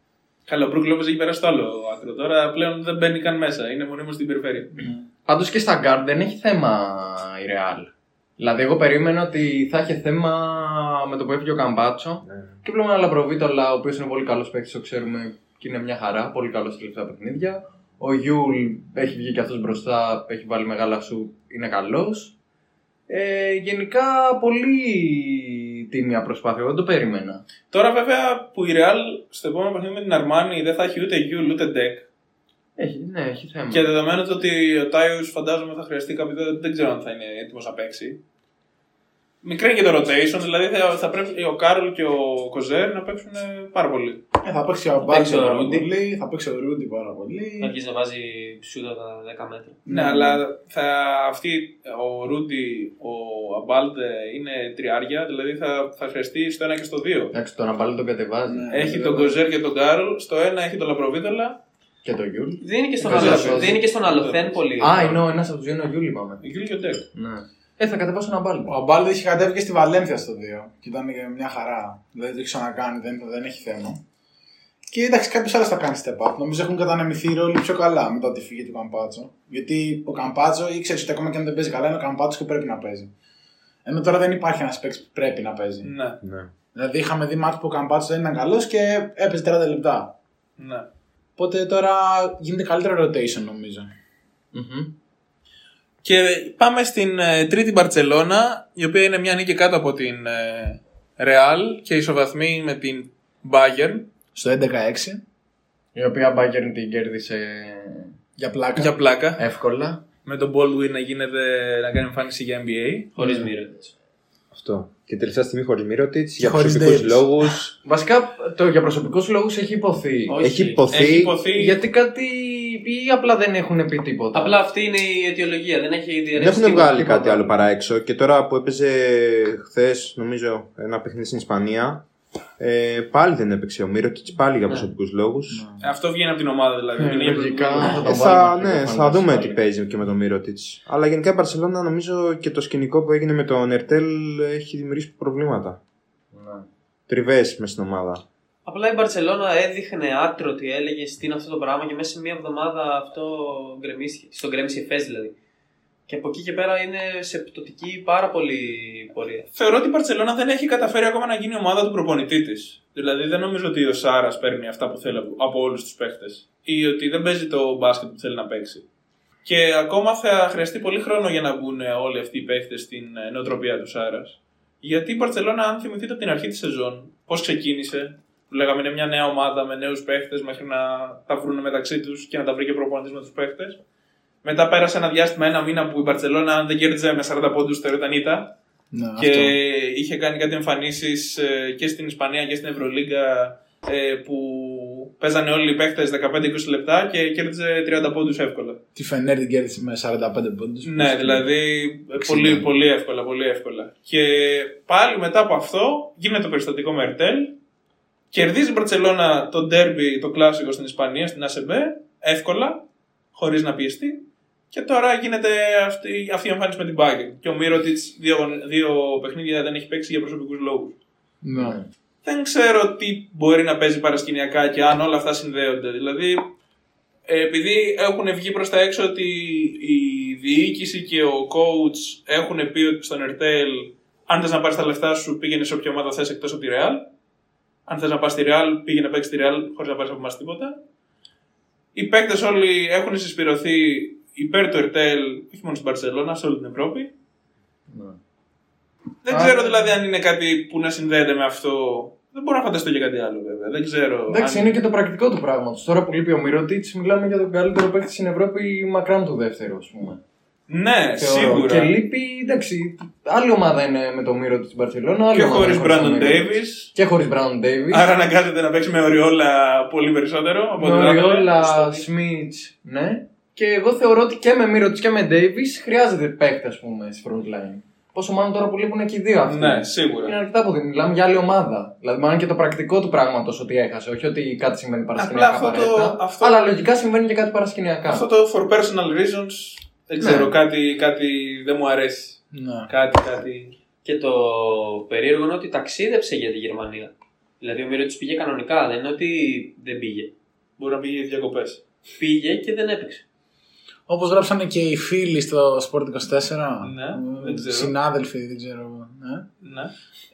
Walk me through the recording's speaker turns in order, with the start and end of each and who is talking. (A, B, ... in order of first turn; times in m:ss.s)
0:00.5-0:04.7 A
0:04.8-0:05.0 B
0:05.2-0:22.3 C
0:12.2-0:12.5 D
0:23.1-0:27.4 C
0:27.7-0:32.1 A
0:32.8-0:33.9 C
0:33.7-0:38.2 A
0:39.4-0:44.2 A
0:44.4-0:47.7 B
0:45.0-0:45.9 E
0:47.6-0:49.8 E
0:49.8-0:50.4 B
0:49.9-0:57.3 A
0:57.3-0:58.7 C
0:58.4-0:59.4 B
0:58.7-1:01.6 A
1:02.0-1:03.8 C
1:02.6-1:05.2 E
1:03.0-1:04.6 A
1:04.8-1:06.4 C
1:06.4-1:07.0 A
1:07.1-1:08.8 C
1:08.7-1:14.0 B
1:14.9-1:23.1 B
1:23.8-1:25.9 B
1:25.8-1:26.2 A
1:26.2-1:26.5 D
1:26.7-1:30.1 B
1:30.6-1:30.9 A
1:31.4-1:33.9 B
1:34.5-1:34.9 C
1:36.0-1:44.1 A
1:44.3-1:45.2 B
1:45.9-1:48.2 C
1:48.4-1:48.9 B
1:48.8-1:49.4 A
1:49.4-1:50.0 C
1:50.2-1:53.1 A
1:53.2-1:53.9 E
1:54.5-1:57.7 D
1:56.4-1:57.3 B
1:57.8-2:00.4 C
2:00.3-2:00.9 E
2:00.4-2:01.3 D
2:00.9-2:01.8 A
2:01.6-2:04.6 C
2:04.3-2:07.4 E
2:06.4-2:12.0 D
2:12.6-2:15.6 D
2:15.5-2:15.8 B
2:15.8-2:18.1 A
2:17.0-2:19.6 C
2:17.8-2:25.8 D
2:26.3-2:26.7 C
2:27.1-2:28.2 D
2:28.6-2:35.3 E
2:36.1-2:39.5 E
2:39.5-2:48.8 A
2:49.4-3:03.8 A
3:04.4-3:08.5 A
3:08.9-3:09.5 B
3:09.2-3:18.8 A
3:19.0-3:21.5 B
3:20.8-3:27.5 A
3:22.2-3:22.6 B
3:28.3-3:40.9 A
3:41.4-3:41.8 B
3:42.2-3:46.5 A
3:47.3-3:57.1 A
3:57.9-4:00.8 A
4:01.9-4:07.1 A
4:07.9-4:08.2 C
4:09.2-4:14.7 A
4:09.3-4:09.9 C
4:14.3-4:20.2 C
4:20.7-4:21.9 A
4:21.2-4:28.1 C
4:25.3-4:26.9 A
4:27.9-4:31.8 A
4:30.8-4:48.3 C
4:39.4-4:40.3 A
4:45.2-4:46.7 A
4:48.0-4:53.8 A
4:50.2-4:50.5 C
4:52.5-4:52.9 B
4:54.0-5:00.3 E
5:00.8-5:01.8 A
5:02.2-5:03.2 E
5:04.1-5:09.4 B
5:06.8-5:07.9 A
5:09.6-5:09.9 A